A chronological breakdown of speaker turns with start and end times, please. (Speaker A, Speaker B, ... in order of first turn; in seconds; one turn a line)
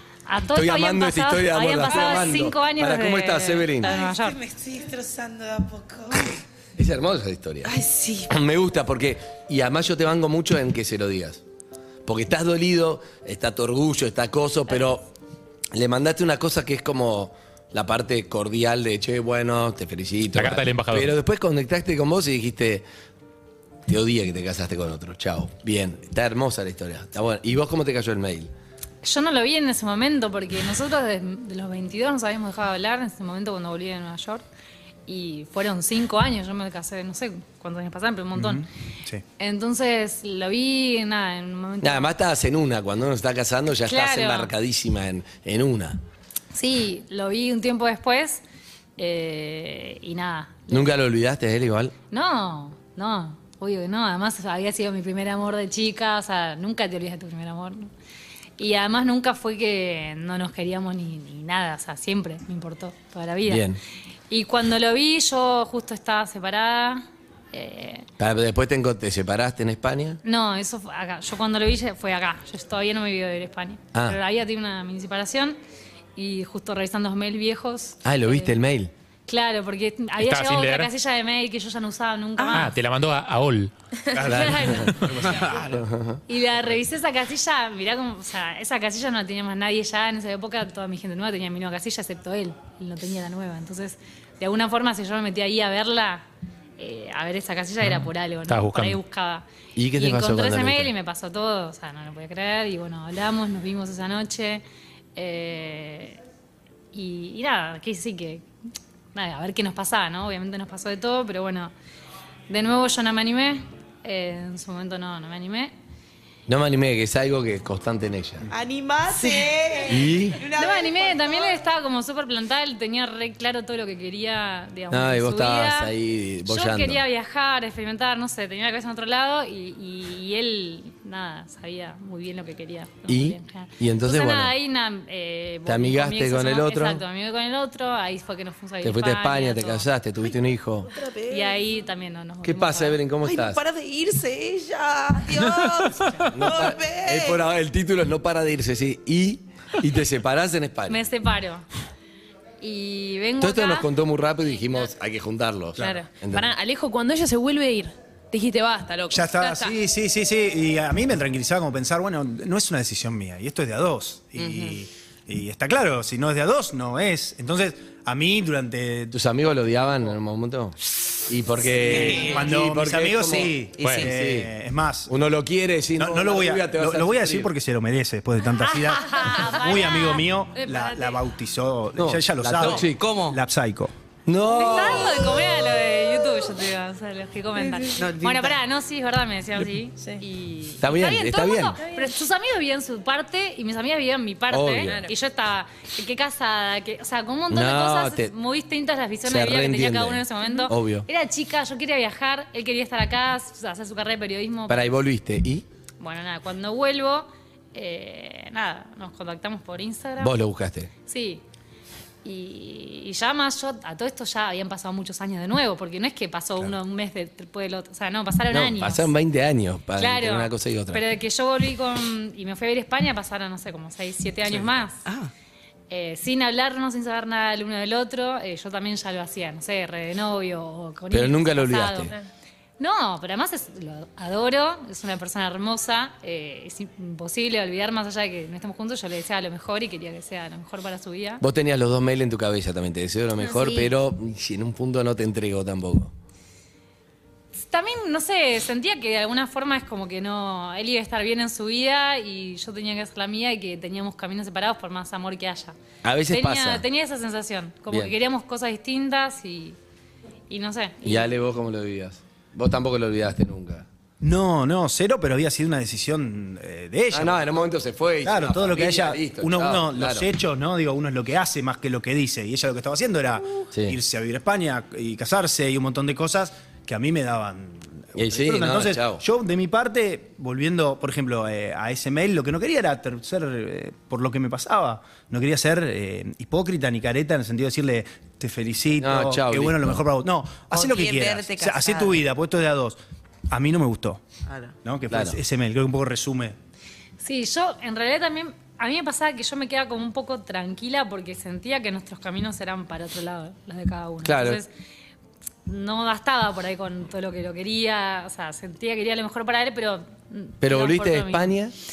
Speaker A: 0.3-4.4
Speaker B: 0.5-3.9
Speaker C: 3.8-6.4
Speaker B: 6.8-7.7
Speaker C: 7.6-8.3
Speaker B: 8.3-11.4
Speaker B: 12.1-15.1
Speaker B: 15.7-22.8
Speaker D: 20.3-21.1
Speaker B: 23.9-28.5
Speaker A: 29.0-34.4
Speaker A: 35.1-38.7
Speaker E: 38.3-39.2
Speaker A: 39.4-42.1
Speaker B: 41.8-46.0
Speaker A: 43.9-44.5
Speaker A: 46.5-48.4
Speaker A: 49.0-50.9
Speaker B: 50.7-51.9
Speaker A: 52.1-57.9
Speaker A: 58.6-63.7
Speaker B: 63.5-63.8
Speaker A: 64.3-68.0
Speaker B: 68.2-70.2
Speaker A: 70.2-75.6
Speaker A: 76.2-78.5
Speaker B: 78.0-78.9
Speaker A: 79.3-82.8
Speaker D: 80.2-80.9
Speaker D: 82.5-83.7
Speaker E: 84.1-85.8
Speaker A: 84.1-85.6
Speaker B: 84.2-84.9
Speaker B: 85.7-86.2
Speaker A: 86.3-96.2
Speaker A: 96.8-99.4
Speaker D: 97.8-99.0
Speaker B: 99.8-100.9
Speaker A: 100.0-104.6
Speaker A: 105.2-106.2
Speaker A: 106.9-108.4
Speaker A: 109.1-111.7
Speaker A: 112.5-115.7
Speaker B: 116.5-118.5
Speaker C: 118.5-121.6
Speaker A: 119.1-119.5
Speaker B: 119.9-120.4
Speaker A: 120.4-125.9
Speaker B: 124.9-127.0
Speaker A: 126.4-139.9
Speaker B: 133.1-134.5
Speaker B: 135.7-137.0
Speaker B: 138.8-140.9
Speaker C: 140.9-141.6
Speaker A: 141.3-143.0
Speaker B: 142.4-143.6
Speaker C: 143.2-147.4
Speaker B: 146.3-151.0
Speaker A: 150.9-151.7
Speaker A: 152.6-153.9
Speaker B: 153.4-156.5
Speaker F: 155.8-159.8
Speaker E: 159.1-169.1
Speaker C: 164.4-164.7
Speaker B: 169.1-174.5
Speaker E: 171.7-175.1
Speaker C: 173.8-174.1
Speaker B: 175.1-177.5
Speaker E: 175.9-183.9
Speaker A: 178.6-181.2
Speaker B: 182.0-183.0
Speaker C: 182.6-183.4
Speaker B: 184.2-185.4
Speaker A: 184.4-204.9
Speaker F: 187.6-187.9
Speaker C: 188.0-188.6
Speaker B: 190.8-191.8
Speaker B: 194.5-195.1
Speaker B: 197.5-198.3
Speaker B: 199.2-201.1
Speaker B: 204.7-205.6
Speaker A: 206.0-210.3
Speaker B: 210.2-210.9
Speaker A: 211.1-211.4
Speaker A: 212.2-219.1
Speaker B: 218.5-221.0
Speaker A: 220.0-225.0
Speaker C: 225.1-225.3
Speaker A: 225.9-232.1
Speaker B: 231.1-232.1
Speaker A: 232.8-241.4
Speaker B: 241.4-246.1
Speaker A: 247.5-255.7
Speaker B: 256.0-256.8
Speaker A: 256.3-259.8
Speaker A: 260.5-261.3
Speaker B: 261.0-263.9
Speaker E: 264.2-267.4
Speaker B: 267.1-270.2
Speaker E: 268.2-293.0
Speaker B: 278.1-279.2
Speaker B: 289.0-290.0
Speaker C: 290.7-292.2
Speaker E: 293.5-294.2
Speaker C: 294.5-294.7
Speaker E: 294.8-296.6
Speaker B: 295.1-295.4
Speaker A: 297.2-304.7
Speaker B: 304.2-304.6
Speaker A: 305.6-311.6
Speaker B: 310.6-311.7